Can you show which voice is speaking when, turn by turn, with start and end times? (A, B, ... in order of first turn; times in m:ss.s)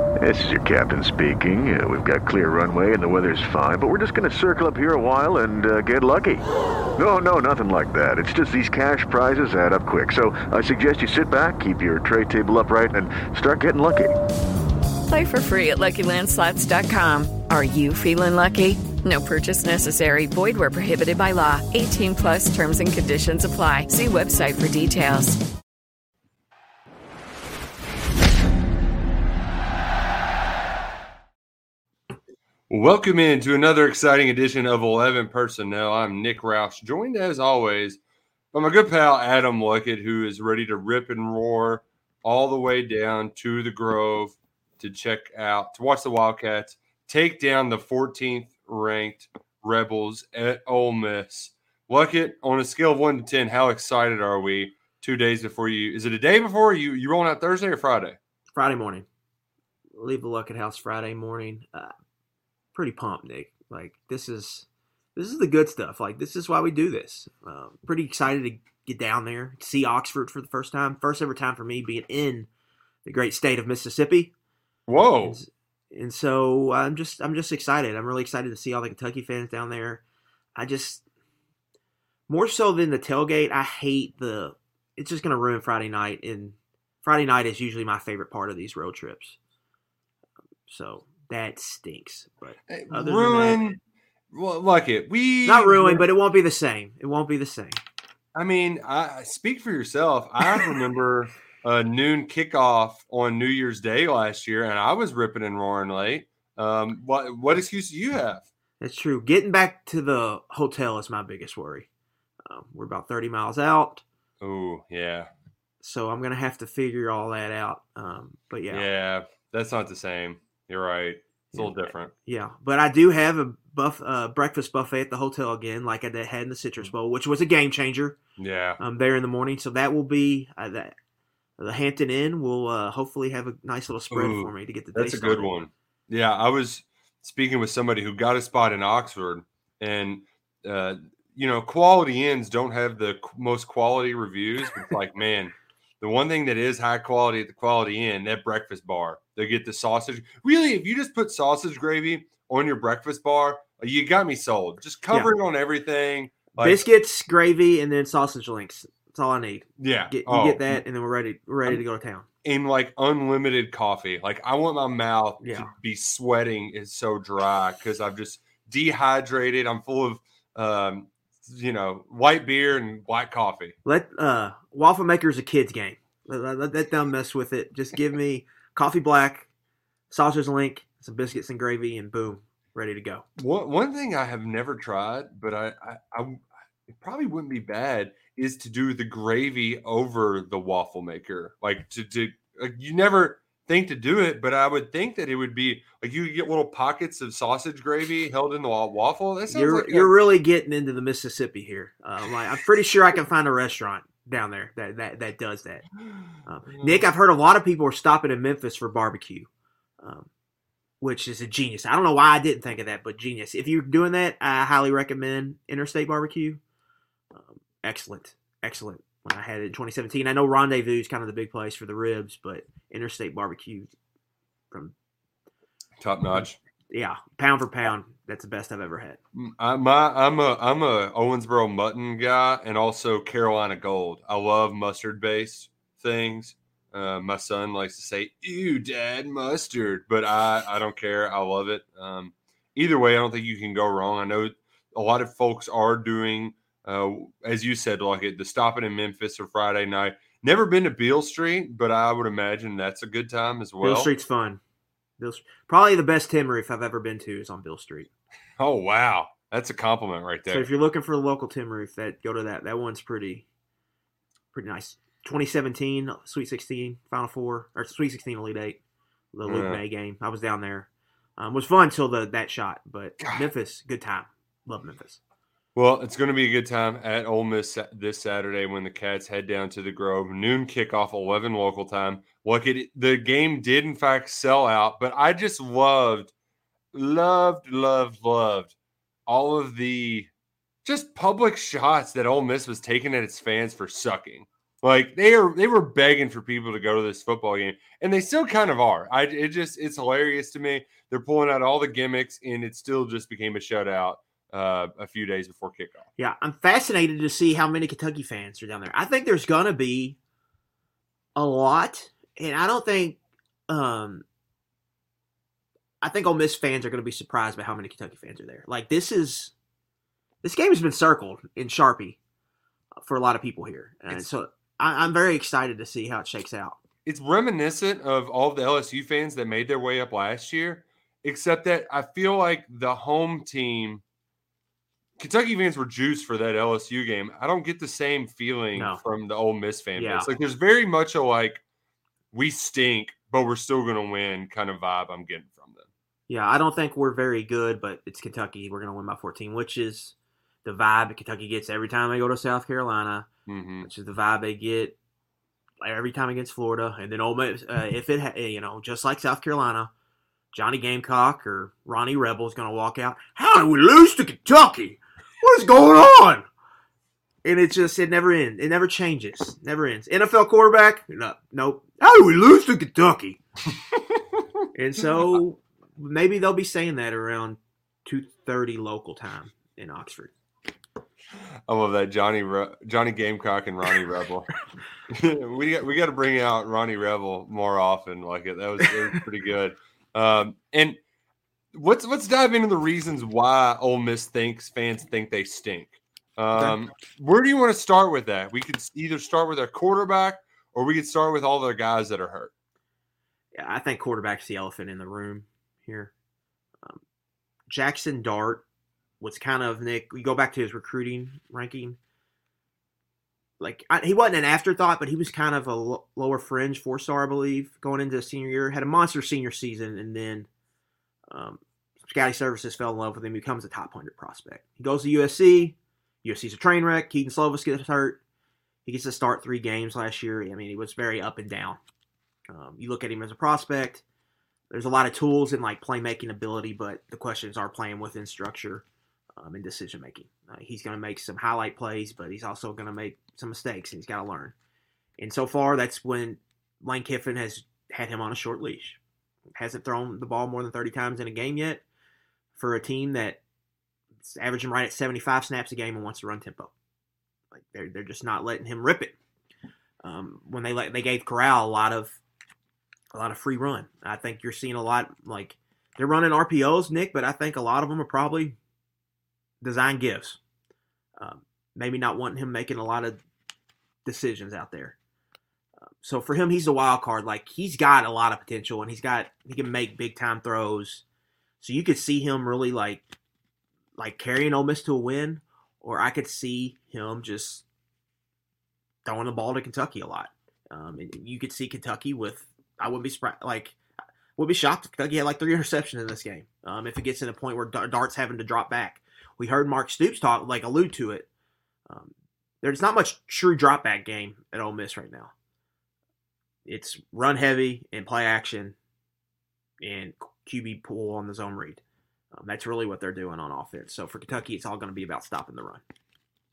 0:00.2-0:06.4 A
0:07.0-0:14.1 A
0:15.1-0:25.4 B
0:32.7-0:38.0 C
0:38.5-0:58.2 C
0:58.6-0:59.1 D
1:00.0-1:01.9 D
1:02.7-1:12.5 D
1:13.0-1:14.3 D
1:14.9-1:15.4 C
1:15.2-1:20.0 D
1:20.6-1:21.0 D
1:22.3-1:29.4 D
1:30.7-1:33.6 D
1:32.7-1:33.8 C
1:34.3-1:36.1 C
1:35.5-1:37.8 D
1:38.3-1:48.5 C
1:48.8-1:51.9 D
1:52.5-1:54.0 D
1:54.4-1:55.3 C
1:55.8-1:58.8 D
1:58.7-2:02.1 C
2:01.6-2:08.2 D
2:08.4-2:08.8 C
2:08.8-2:10.9 D
2:11.6-2:15.6 D
2:14.1-2:36.8 C
2:36.6-2:42.3 D
2:39.8-2:40.8 C
2:42.4-2:53.8 C
2:45.4-2:45.7 D
2:53.8-2:59.5 D
3:00.1-3:03.2 D
3:03.4-3:06.4 C
3:06.9-3:20.1 C
3:19.5-3:25.8 D
3:26.4-3:29.5 D
3:30.0-3:30.3 D
3:31.0-3:36.6 D
3:37.3-3:43.9 D
3:46.0-3:46.6 C
3:46.4-3:49.2 D
3:49.4-4:14.1 C
4:13.8-4:14.6 D
4:15.2-4:18.1 D
4:18.6-4:20.7 C
4:20.5-4:23.4 D
4:24.5-4:28.8 D
4:29.3-4:35.2 D
4:29.5-4:29.8 C
4:33.2-4:33.5 C
4:35.8-4:46.3 C
4:46.9-4:48.7 C
4:49.3-4:50.3 C
4:50.8-5:06.1 C
5:06.2-5:10.2 D
5:11.4-5:14.2 D
5:16.0-5:19.5 D
5:20.4-5:22.2 D
5:23.0-5:26.8 D
5:27.0-5:34.0 C
5:35.2-5:41.6 C
5:38.8-5:39.0 D
5:40.0-5:40.3 D
5:42.3-5:45.9 C
5:46.3-5:53.3 D
5:53.5-5:53.9 C
5:53.8-5:55.0 D
5:55.8-5:59.9 D
6:00.5-6:06.5 D
6:07.4-6:13.4 D
6:14.7-6:20.3 D
6:21.7-6:24.5 C
6:25.1-6:31.0 C
6:31.7-6:42.5 C
6:36.6-6:36.8 D
6:43.6-6:46.1 D
6:47.7-6:48.6 D
6:49.2-6:52.0 D
6:53.6-7:00.5 D
7:01.3-7:08.2 D
7:08.9-7:11.8 D
7:12.5-7:14.0 D
7:14.7-7:18.8 D
7:19.4-7:24.5 D
7:25.2-7:29.0 D
7:29.5-7:31.8 D
7:32.6-7:33.4 D
7:34.2-7:36.7 D
7:37.5-7:39.1 D
7:40.0-7:42.2 D
7:43.1-7:48.6 D
7:49.6-7:50.4 D
7:51.2-7:53.2 D
7:54.0-7:55.0 D
7:56.0-8:01.0 D
8:01.6-8:03.0 D
8:04.0-8:07.6 D
8:09.0-8:13.8 D
8:14.4-8:21.3 D
8:21.9-8:25.3 D
8:26.7-8:28.8 D
8:29.8-8:31.8 D
8:32.3-8:35.8 D